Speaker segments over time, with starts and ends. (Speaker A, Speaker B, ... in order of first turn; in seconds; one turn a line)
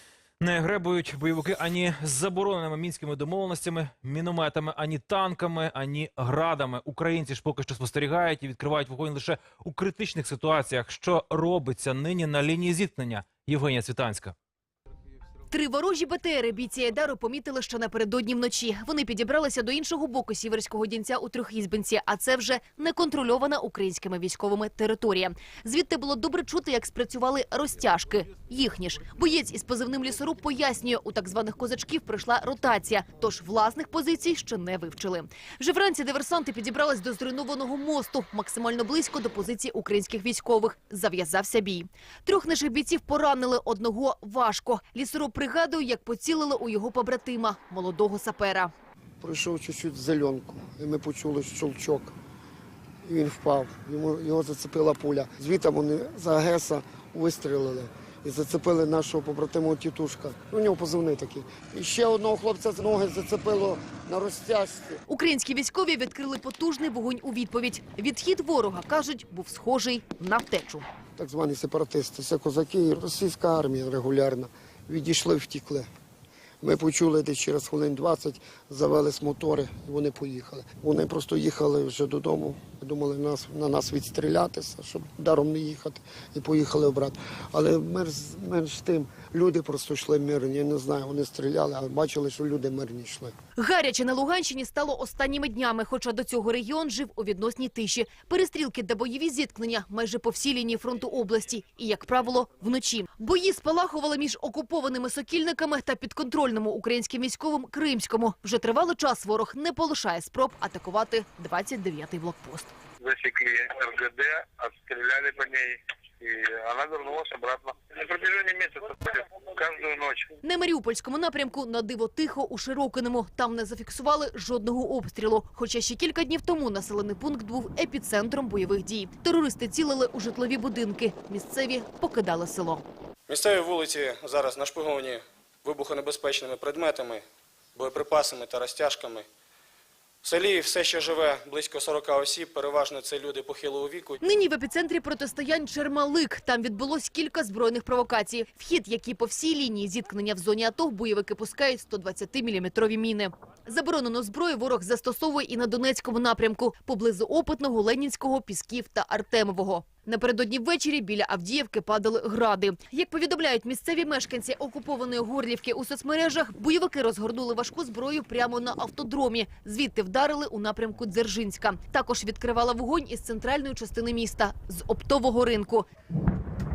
Speaker A: 0.4-14.3
Speaker B: 15.5-48.7
Speaker C: 49.2-52.1
Speaker C: 53.0-65.0
Speaker B: 65.1-70.9
Speaker C: 71.2-75.9
Speaker C: 76.6-93.3
Speaker B: 93.6-112.7
Speaker D: 113.0-120.3
Speaker B: 120.4-132.8
Speaker E: 133.3-137.2
Speaker E: 137.8-139.3
Speaker E: 140.2-144.2
Speaker B: 144.2-175.8